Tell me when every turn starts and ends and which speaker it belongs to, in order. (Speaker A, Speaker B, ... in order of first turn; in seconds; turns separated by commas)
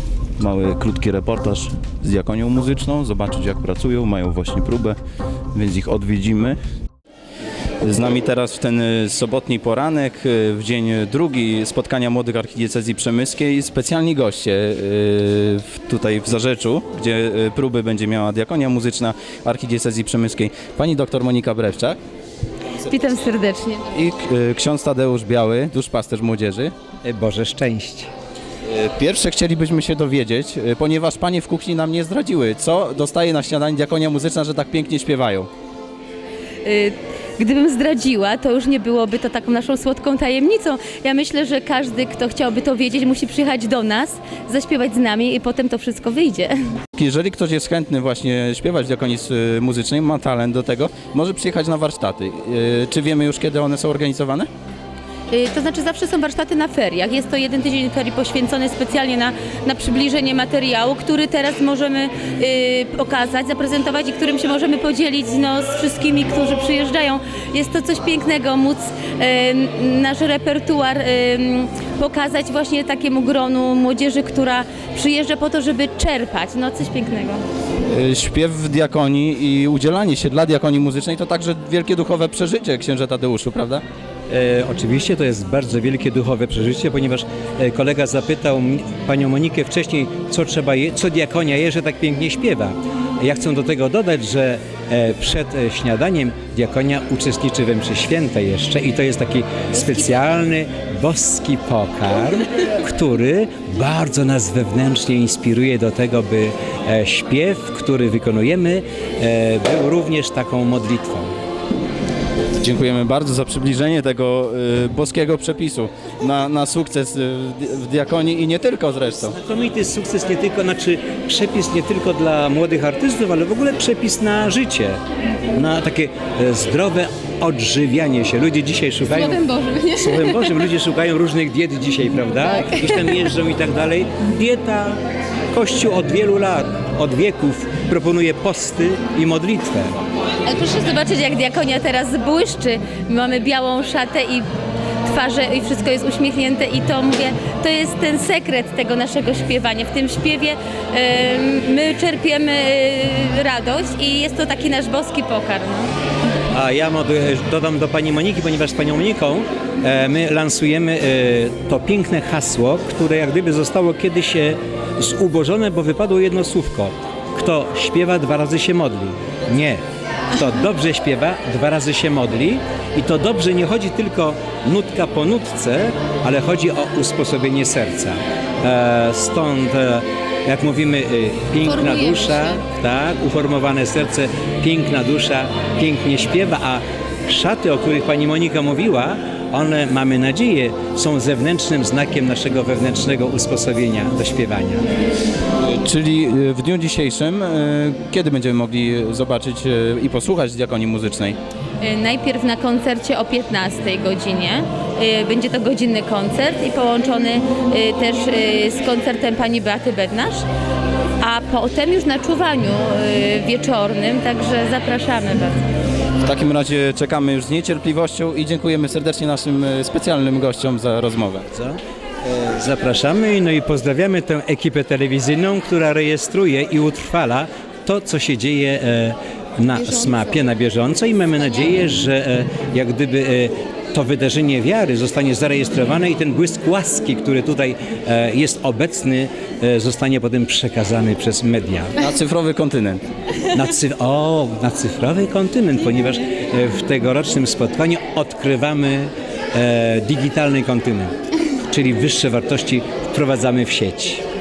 Speaker A: 0.4-5.0, Speaker A: 5.5-6.6, Speaker A: 7.8-22.0, Speaker B: 22.8-24.0, Speaker A: 23.9-26.7, Speaker C: 27.0-28.1, Speaker A: 28.7-35.5, Speaker B: 36.6-46.6, Speaker A: 47.0-54.5, Speaker B: 55.3-77.4, Speaker A: 77.9-83.8, Speaker C: 84.3-111.3, Speaker A: 112.6-119.4, Speaker C: 119.2-125.0, Speaker C: 125.5-135.0, Speaker B: 129.1-130.7, Speaker C: 135.5-140.0, Speaker B: 140.4-144.5, Speaker B: 145.0-155.9, Speaker C: 156.5-194.9, Speaker B: 182.0-182.5, Speaker A: 195.6-201.4, Speaker B: 201.8-210.4, Speaker B: 211.2-215.7, Speaker A: 216.2-221.5, Speaker C: 221.5-242.0, Speaker A: 242.0-243.0, Speaker C: 243.4-251.2, Speaker C: 251.7-254.2